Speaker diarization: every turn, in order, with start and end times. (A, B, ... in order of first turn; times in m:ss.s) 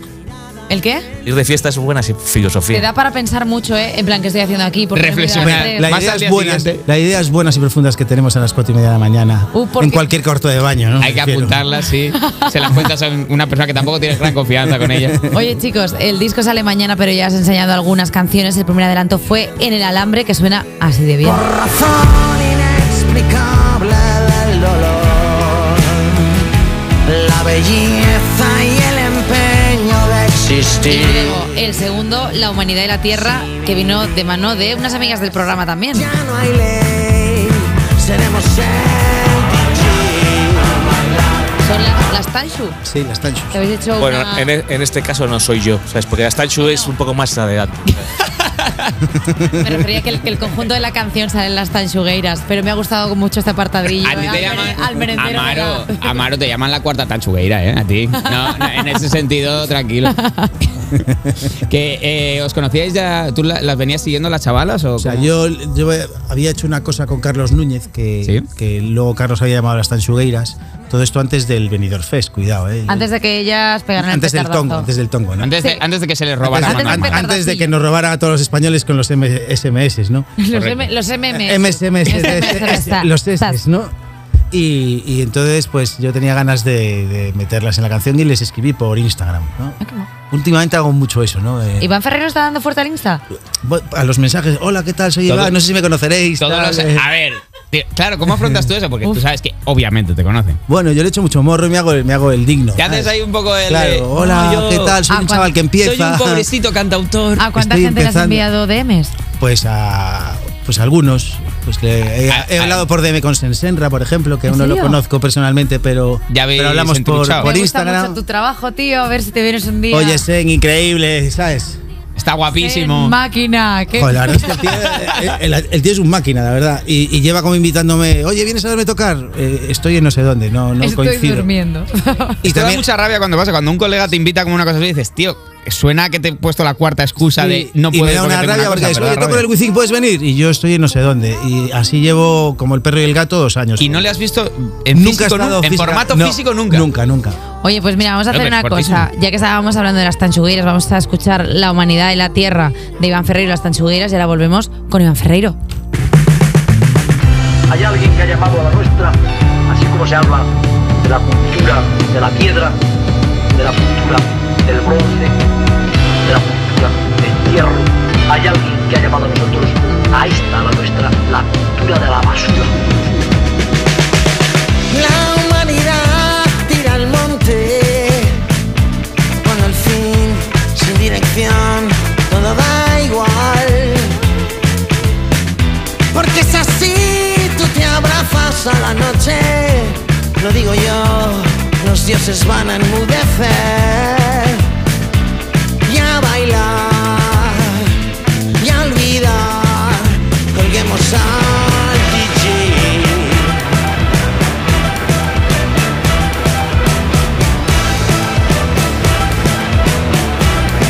0:00.7-0:01.1 A
0:01.3-0:02.8 B
0:02.7-0:05.9 A
0:04.9-0:06.8 C
0:05.4-0:11.6 D
0:09.5-0:10.1 A
0:11.0-0:15.2 C
0:12.2-0:12.6 A
0:14.7-0:15.4 D
0:15.3-0:21.4 A
0:21.2-0:26.4 E
0:27.1-0:31.3 E
0:30.9-0:36.1 A
0:36.0-0:41.1 E
0:41.6-0:42.8 A
0:42.8-0:43.6 D
0:43.5-0:44.5 A
0:44.0-0:48.0 B
0:48.4-0:48.9 C
0:49.2-0:49.6 D
0:49.6-0:56.2 A
0:54.0-1:00.2 C
0:58.2-0:59.0 A
1:00.0-1:00.5 A
1:00.9-1:05.3 C
1:01.0-1:01.5 D
1:05.0-1:13.1 D
1:12.9-1:14.9 A
1:14.0-1:15.5 D
1:15.4-1:17.2 C
1:15.6-1:15.8 A
1:16.4-1:20.4 D
1:16.5-1:17.7 A
1:20.4-1:23.6 A
1:20.5-1:20.9 C
1:21.3-1:23.9 D
1:24.5-1:29.8 D
1:29.8-1:30.1 A
1:30.3-1:31.9 D
1:31.8-1:33.2 A
1:33.6-1:37.1 D
1:35.3-1:35.6 C
1:36.4-1:40.6 C
1:40.7-1:46.5 D
1:42.8-1:45.0 C
1:45.1-1:45.6 A
1:45.8-1:47.5 C
1:47.4-1:49.1 A
1:47.5-1:48.5 D
1:49.4-1:58.2 D
1:52.3-1:52.9 C
1:54.5-1:55.0 A
1:56.3-1:57.5 C
1:57.4-2:00.2 A
1:59.9-2:01.8 D
2:02.2-2:03.2 C
2:02.6-2:04.7 A
2:03.9-2:11.5 D
2:04.9-2:05.4 C
2:10.8-2:12.4 A
2:12.4-2:12.8 D
2:12.4-2:19.5 C
2:17.2-2:24.1 D
2:23.8-2:26.9 C
2:24.9-2:27.4 D
2:27.6-2:35.6 A
2:28.3-2:29.1 C
2:37.7-2:42.8 F
2:43.5-2:45.4 F
2:46.2-2:53.2 F
2:54.9-2:58.4 E
2:59.4-3:04.3 E
3:06.1-3:14.7 E
3:15.8-3:18.0 E
3:18.6-3:23.7 E